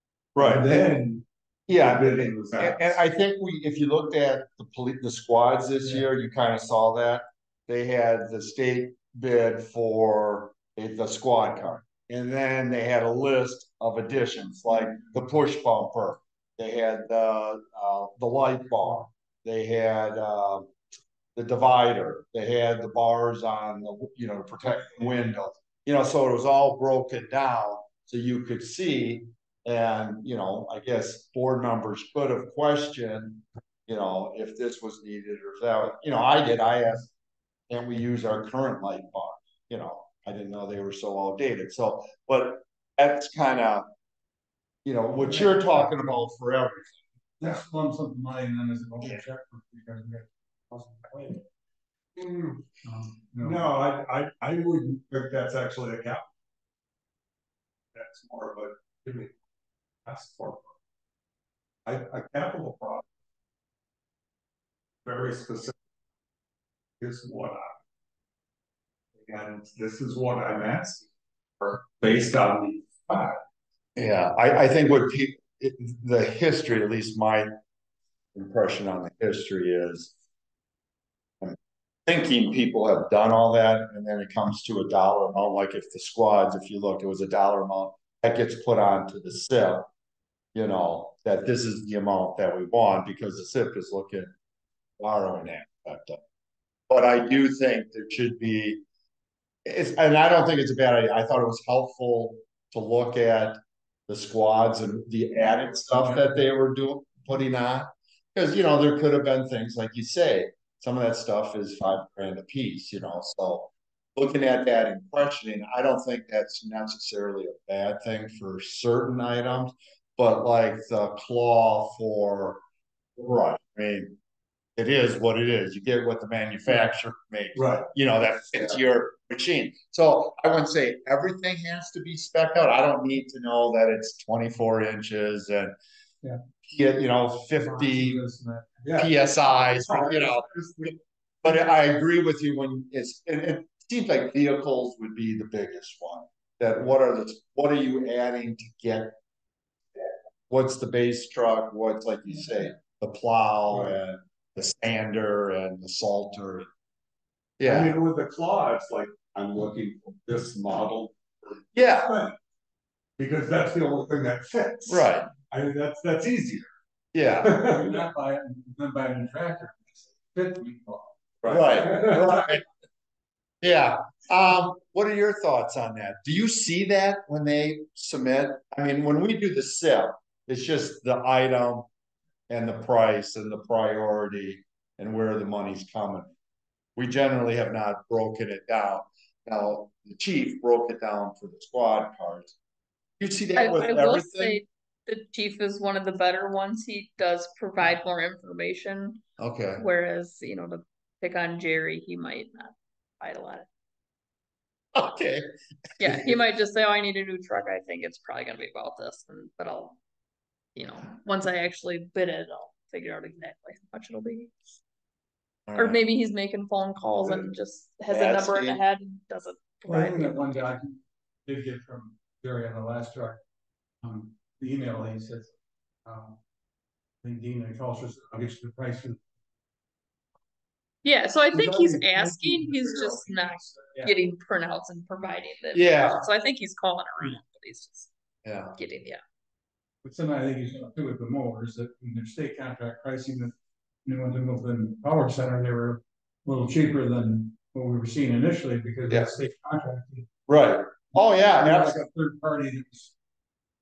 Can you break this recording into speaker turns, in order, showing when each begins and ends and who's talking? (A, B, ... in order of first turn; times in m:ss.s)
0:00.3-0:00.9 A
0:00.4-0:03.0 B
0:01.7-0:20.7 A
0:21.3-0:37.1 A
0:37.7-0:43.9 A
0:44.8-0:47.0 A
0:45.2-0:46.0 C
0:47.4-0:51.4 C
0:52.2-0:52.6 B
0:52.8-0:53.7 C
0:53.4-0:56.3 B
0:57.9-0:59.3 B
1:00.0-1:00.7 B
1:01.8-1:03.1 B
1:05.0-1:05.8 B
1:07.0-1:07.8 B
1:09.2-1:11.1 B
1:11.6-1:13.4 B
1:14.0-1:17.5 A
1:18.3-1:20.1 A
1:21.4-1:29.9 A
1:30.5-1:34.3 A
1:35.0-1:36.2 A
1:36.9-1:38.8 A
1:39.6-2:02.6 A
1:46.0-1:46.2 C
2:03.2-2:04.2 A
2:04.8-2:15.7 A
2:07.5-2:07.9 B
2:16.6-2:18.2 A
2:17.6-2:18.7 C
2:18.8-2:21.0 B
2:18.9-2:20.5 A
2:21.4-2:29.1 A
2:30.5-2:36.7 A
2:33.7-2:34.0 B
2:37.6-2:38.0 A
2:37.6-2:42.3 B
2:41.7-2:42.2 A
2:43.2-2:46.7 B
2:44.9-2:45.3 A
2:47.1-2:47.6 A
2:47.4-2:48.0 B
2:47.6-2:51.1 C
2:51.4-2:52.5 B
2:51.4-2:52.6 A
2:53.6-3:01.9 A
3:02.5-3:06.3 A
3:07.0-3:12.5 A
3:13.2-3:14.6 A
3:13.5-3:19.2 D
3:19.4-3:19.8 A
3:19.8-3:23.7 D
3:24.9-3:25.5 A
3:26.0-3:26.3 A
3:26.0-3:30.0 D
3:30.7-3:34.5 D
3:35.7-3:36.0 A
3:35.8-3:40.4 D
3:38.1-3:38.8 A
3:39.8-3:43.4 C
3:44.0-3:45.5 C
3:46.0-3:46.4 C
3:47.2-3:49.2 C
3:51.0-3:58.1 D
3:51.5-3:54.1 C
3:55.7-3:56.2 A
3:58.4-3:58.7 A
3:58.7-3:59.2 D
4:00.0-4:10.3 C
4:10.5-4:12.0 A
4:11.5-4:13.1 C